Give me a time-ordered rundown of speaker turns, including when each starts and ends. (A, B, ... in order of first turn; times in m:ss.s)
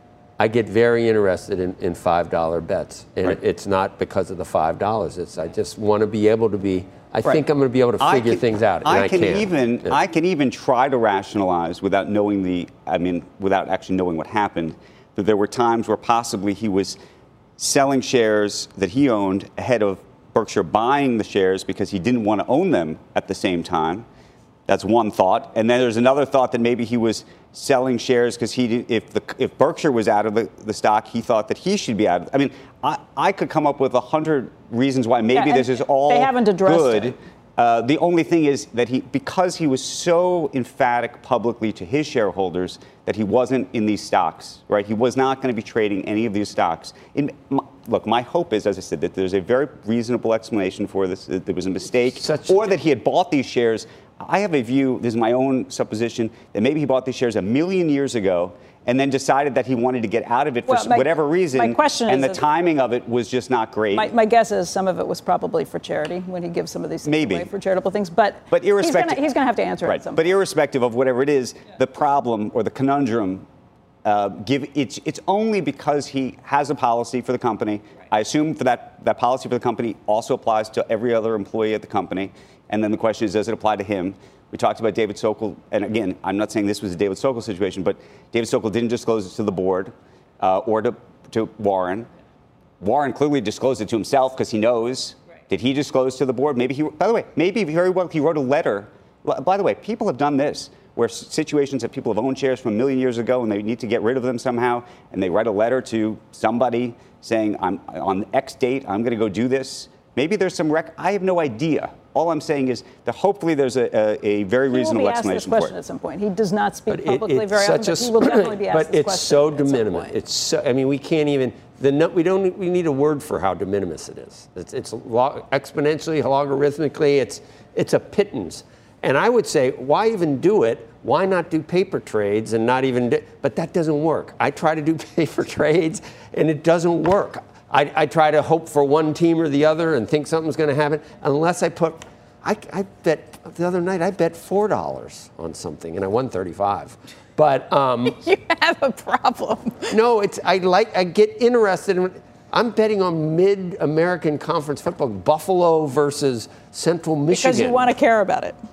0:00.4-0:10.0 A
0:08.0-0:17.0 B
0:17.6-0:24.0 B
0:24.7-1:04.1 B
0:35.3-0:37.2 C
0:52.2-0:52.6 A
1:00.7-1:02.4 C
1:03.9-1:10.2 C
1:07.0-1:07.5 B
1:08.5-1:09.2 B
1:09.8-1:13.4 B
1:14.0-1:32.1 B
1:32.8-1:55.7 B
1:54.7-2:00.2 C
1:56.9-2:28.2 A
2:28.1-2:29.9 C
2:29.9-2:37.9 A
2:37.3-2:38.6 C